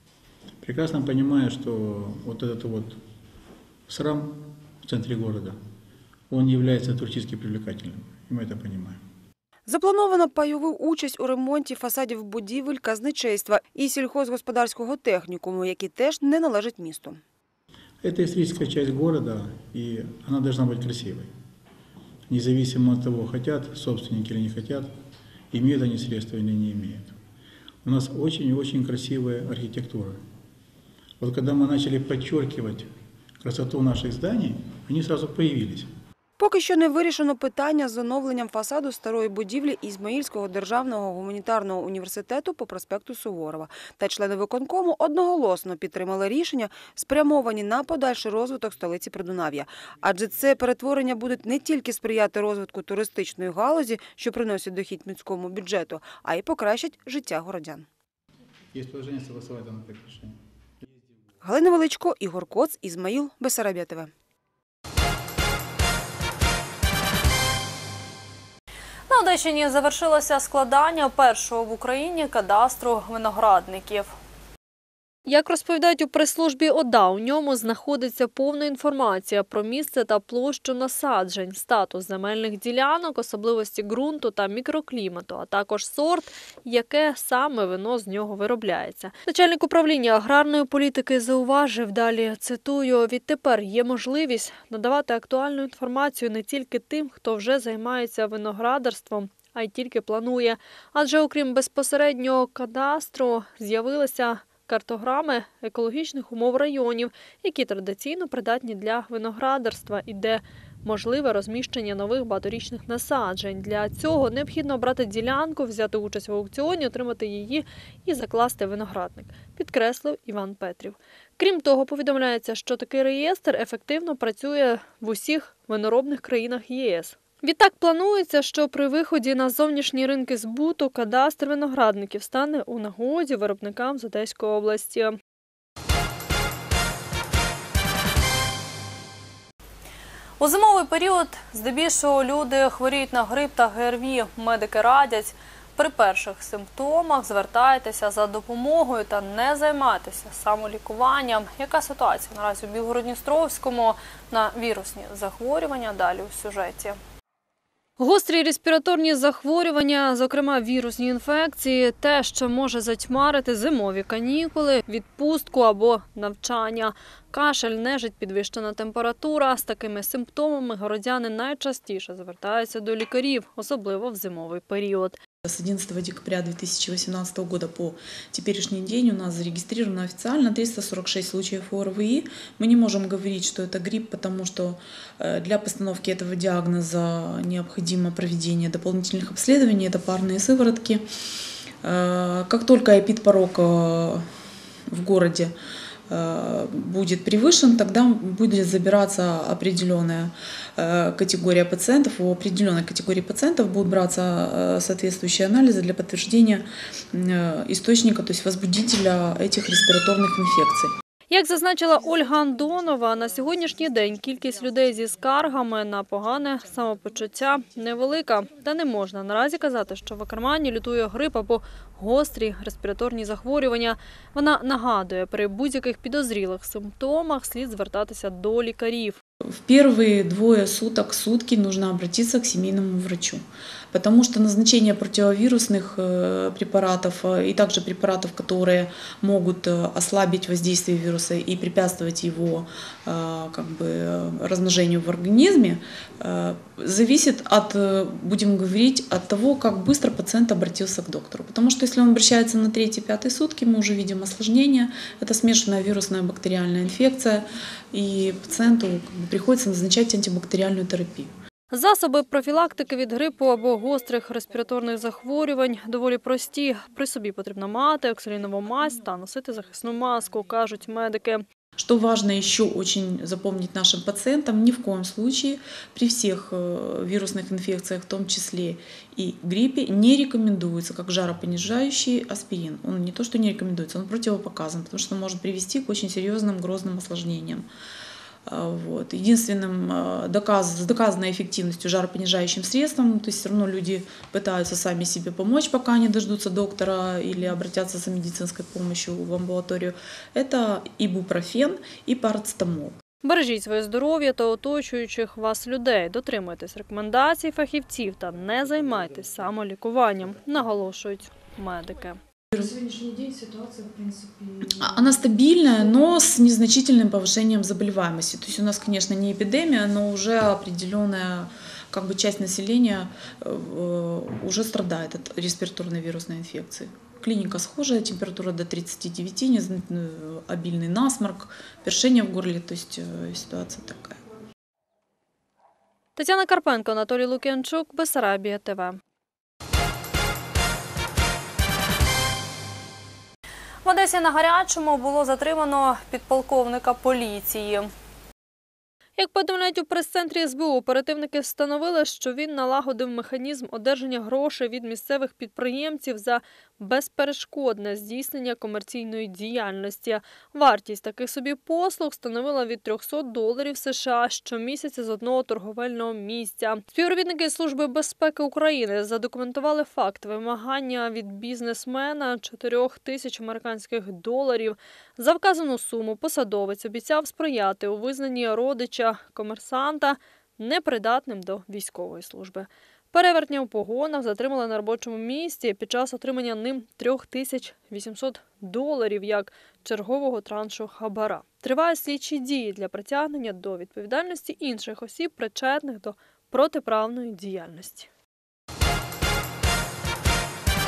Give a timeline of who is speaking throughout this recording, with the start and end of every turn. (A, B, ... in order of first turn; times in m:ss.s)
0:00.6-0:03.0 A
0:03.9-0:05.6 A
0:06.3-0:09.0 A
0:09.7-0:17.2 B
0:18.0-0:21.3 A
0:22.3-0:24.9 A
0:25.5-0:27.2 A
0:27.8-0:30.2 A
0:31.2-0:35.9 A
0:36.4-0:57.8 B
0:58.7-1:00.4 A
1:01.4-1:04.1 B
1:09.1-1:14.1 C
1:15.3-2:15.2 C
2:20.4-2:37.0 C
2:38.0-2:55.2 C
2:55.4-3:11.0 D
3:11.8-3:14.2 D
3:14.9-3:15.5 D
3:16.1-3:30.9 D
3:31.3-3:49.2 C
3:49.6-4:21.3 D
4:21.7-4:31.4 C
4:31.8-4:47.7 D
4:48.5-5:03.0 D
5:03.2-5:12.2 C
5:12.5-5:15.2 E
5:14.8-5:34.2 D
5:36.2-5:39.0 C
5:43.8-5:47.9 C
5:49.2-6:38.1 C